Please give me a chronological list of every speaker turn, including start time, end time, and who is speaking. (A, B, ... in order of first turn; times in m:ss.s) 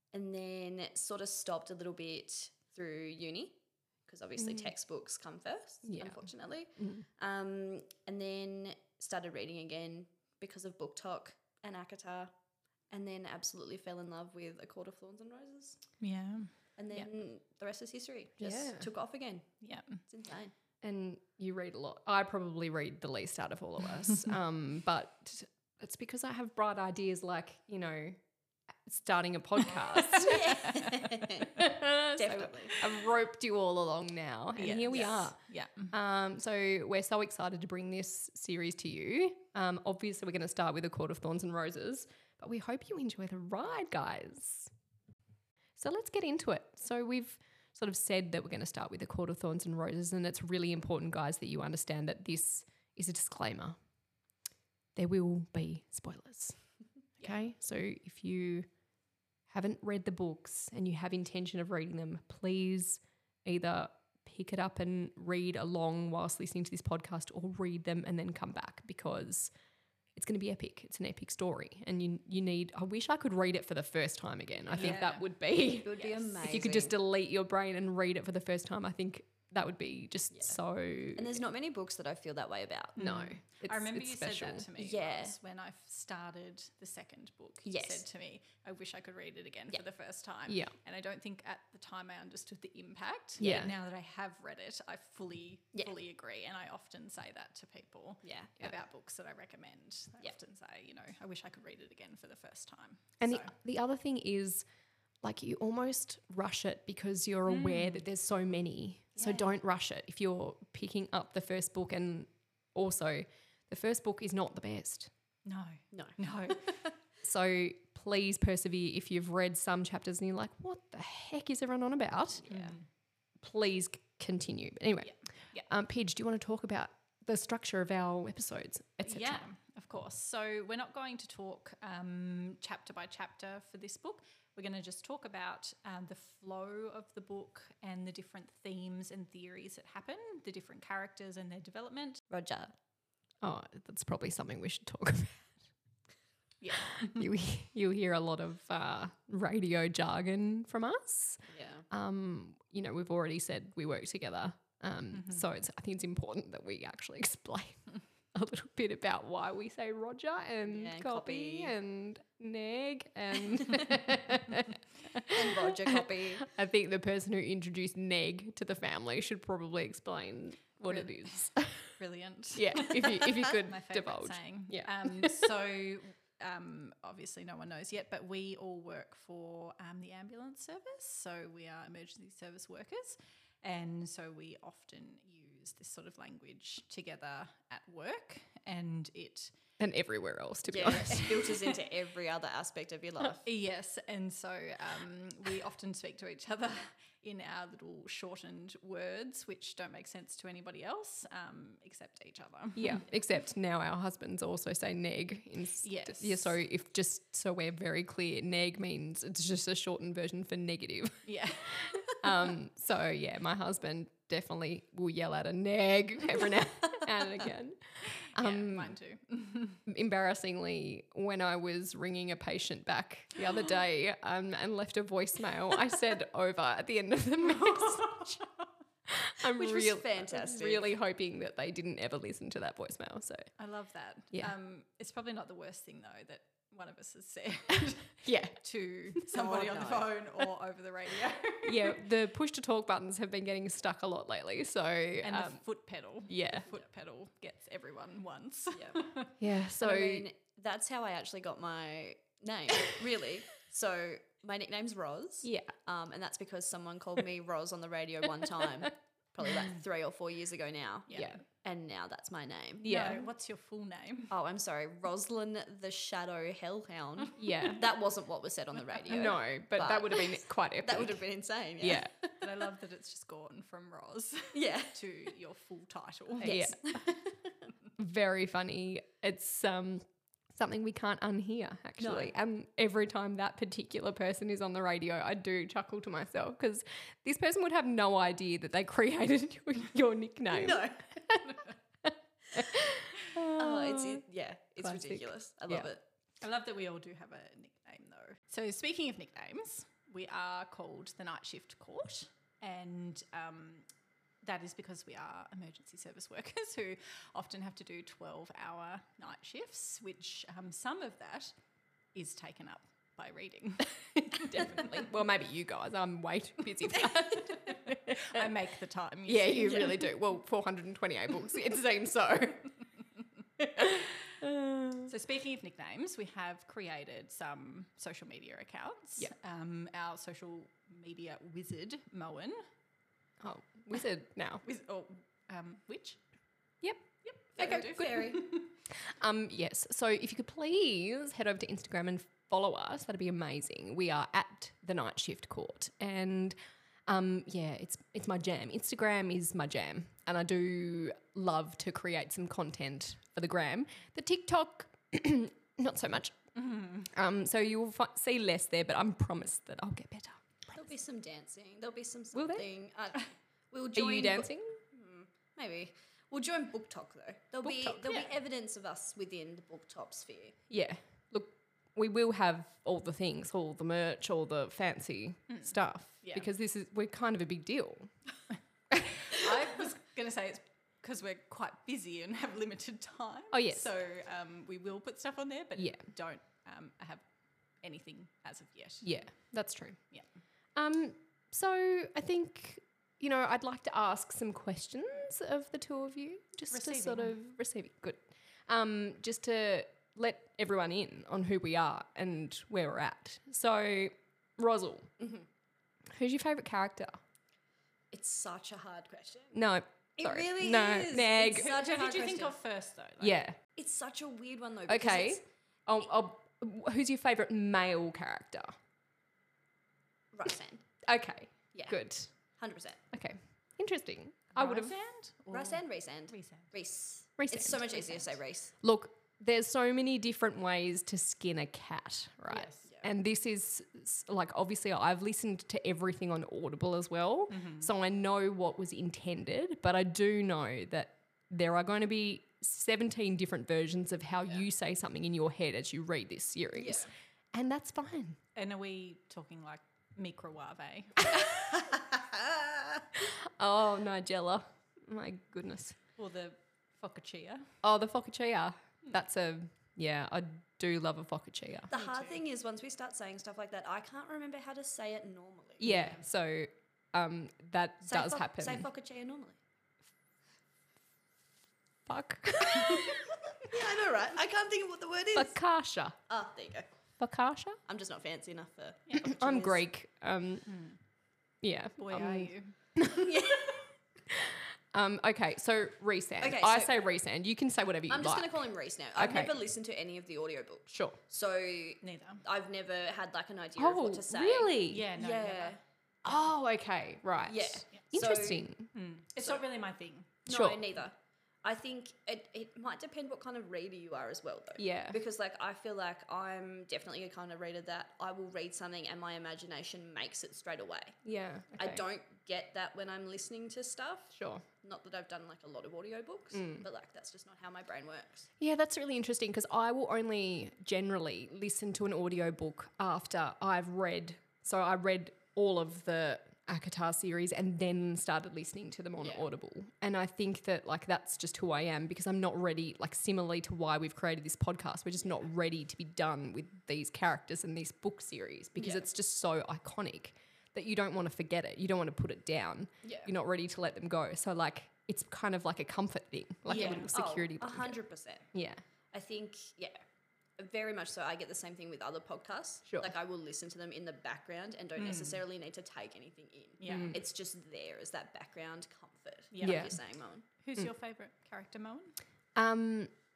0:00.1-0:12.3 A
0:04.4-0:04.7 B
0:05.8-0:07.0 B
0:12.9-0:15.8 A
0:16.0-0:17.1 C
0:16.8-0:19.5 A
0:18.4-0:18.9 B
0:19.6-0:20.0 C
0:20.1-0:20.5 A
0:20.8-0:28.2 B
0:28.8-0:30.7 B
0:29.8-0:31.1 C
0:30.1-0:31.6 A
0:31.5-0:44.7 B
0:32.2-0:32.8 A
0:34.6-0:35.9 C
0:34.9-0:35.3 A
0:45.8-0:53.8 B
0:55.0-0:56.6 B
0:57.2-0:58.7 B
0:59.5-1:09.5 B
1:10.2-1:21.4 B
1:14.7-1:15.2 C
1:14.7-1:15.0 A
1:15.8-1:17.0 A
1:20.3-1:20.6 A
1:21.2-1:23.0 A
1:23.0-1:43.5 C
1:23.0-1:24.7 B
1:24.8-1:25.4 A
1:27.6-1:28.0 A
1:30.5-1:30.8 B
1:33.4-1:33.7 A
1:33.4-1:33.7 B
1:38.2-1:38.5 A
1:43.2-1:44.6 B
1:45.2-1:55.1 B
1:47.5-1:48.0 C
1:49.2-1:49.5 A
1:55.4-1:56.8 C
1:55.9-1:56.9 A
1:57.2-2:02.5 B
2:02.4-2:02.8 A
2:02.5-2:02.8 C
2:03.4-2:09.4 B
2:05.0-2:05.7 C
2:09.0-2:22.2 C
2:22.3-2:22.7 A
2:23.4-2:25.5 B
2:26.6-2:27.3 C
2:26.8-2:51.9 B
2:31.4-2:31.9 A
2:35.2-2:35.4 C
2:40.7-2:41.8 A
2:45.3-2:46.5 A
2:50.9-3:09.5 C
2:52.6-2:55.5 B
3:09.8-3:11.5 B
3:10.7-3:13.5 A
3:10.9-3:11.8 C
3:13.4-3:23.0 C
3:22.8-3:39.0 B
3:25.8-3:26.6 C
3:31.2-3:32.3 C
3:38.4-3:39.8 C
3:39.9-3:48.4 B
3:47.7-3:48.3 C
3:49.1-3:53.5 B
3:49.5-3:50.9 A
3:53.6-4:02.0 C
3:58.2-3:58.6 B
3:59.3-4:00.2 A
4:01.7-4:05.6 B
4:05.2-4:09.3 C
4:06.3-4:06.7 B
4:08.7-4:09.0 A
4:09.4-4:10.3 B
4:09.8-4:23.0 A
4:15.4-4:15.7 B
4:21.1-4:21.4 C
4:21.1-4:21.4 B
4:22.8-4:23.3 B
4:22.8-4:24.3 C
4:24.3-4:32.4 A
4:27.4-4:27.8 B
4:29.1-4:31.2 B
4:31.8-4:32.1 B
4:32.4-4:36.7 C
4:34.5-4:35.0 A
4:36.4-4:36.8 B
4:36.4-4:37.4 A
4:38.0-4:51.5 B
4:42.0-4:42.3 A
4:50.5-4:51.4 A
4:52.0-4:54.2 B
4:53.4-4:56.0 A
4:54.8-4:55.9 B
4:56.4-5:03.9 C
5:04.4-5:11.5 C
5:12.1-5:15.0 C
5:14.2-5:18.5 B
5:17.5-5:20.2 C
5:19.3-5:22.7 B
5:23.6-5:25.1 B
5:25.1-5:32.6 C
5:33.4-5:34.6 B
5:34.6-5:36.2 C
5:37.2-5:38.7 C
5:37.6-5:38.5 A
5:37.6-5:38.4 B
5:38.9-5:46.6 B
5:47.1-5:56.4 B
5:56.6-5:57.1 C
5:57.1-6:00.8 B
6:00.7-6:10.6 A
6:02.3-6:02.7 B
6:03.9-6:04.8 B
6:07.7-6:08.0 B
6:07.9-6:08.3 C
6:10.7-6:18.1 B
6:15.5-6:16.5 C
6:19.1-6:27.2 C
6:23.5-6:23.9 B
6:25.8-6:26.0 B
6:27.8-6:29.2 C
6:29.0-6:30.0 B
6:30.8-6:45.1 B
6:36.7-6:37.4 C
6:45.2-6:45.5 A
6:46.1-6:47.2 B
6:48.1-6:49.6 A
6:49.5-6:51.7 B
6:50.2-6:52.6 A
6:51.5-6:53.4 C
6:53.2-6:53.6 B
6:53.8-6:55.4 A
6:54.9-6:58.8 B
7:00.3-7:00.9 A
7:01.0-7:02.3 B
7:01.7-7:03.0 A
7:03.1-7:05.0 B
7:04.6-7:06.7 C
7:05.5-7:08.7 A
7:07.4-7:08.2 B
7:08.8-7:28.4 B
7:12.5-7:12.8 C
7:17.5-7:17.9 C
7:26.8-7:27.1 A
7:28.6-7:31.3 C
7:31.6-7:33.1 A
7:33.2-7:36.0 B
7:36.2-7:37.7 C
7:37.8-7:41.9 B
7:41.9-7:45.9 A
7:41.9-7:42.4 C
7:45.8-7:48.9 B
7:45.8-7:46.2 C
7:48.0-7:49.6 A
7:52.1-7:53.2 B
7:52.5-7:55.6 A
7:55.4-7:56.2 B
7:56.3-7:56.9 A
7:57.2-7:57.8 B
7:57.9-7:59.8 A
7:59.2-8:00.7 B
8:00.7-8:01.0 C
8:01.6-8:03.3 B
8:02.0-8:02.8 C
8:03.1-8:03.9 A
8:04.3-8:08.6 B
8:06.4-8:06.9 A
8:08.1-8:15.8 A
8:09.2-8:09.6 B
8:10.9-8:11.2 B
8:12.0-8:12.4 C
8:13.8-8:15.1 B
8:14.9-8:15.8 C
8:16.2-8:18.9 B
8:17.5-8:18.6 A
8:18.9-8:20.4 C
8:20.5-8:31.2 A
8:20.5-8:20.8 B
8:24.8-8:25.2 B
8:31.2-8:32.0 B
8:31.8-8:38.5 A
8:34.3-8:34.6 B
8:36.5-8:36.8 B
8:38.6-9:08.0 B
8:49.2-8:49.5 A
8:58.8-8:59.1 A
9:03.0-9:03.3 A
9:06.7-9:07.1 C
9:06.7-9:08.5 A
9:08.5-9:08.8 B
9:09.1-9:10.0 A
9:10.6-9:20.5 A
9:15.0-9:15.4 C
9:16.8-9:17.2 C
9:16.9-9:17.2 B
9:19.5-9:20.0 C
9:19.6-9:20.0 B
9:20.5-9:22.2 C
9:22.6-9:23.1 B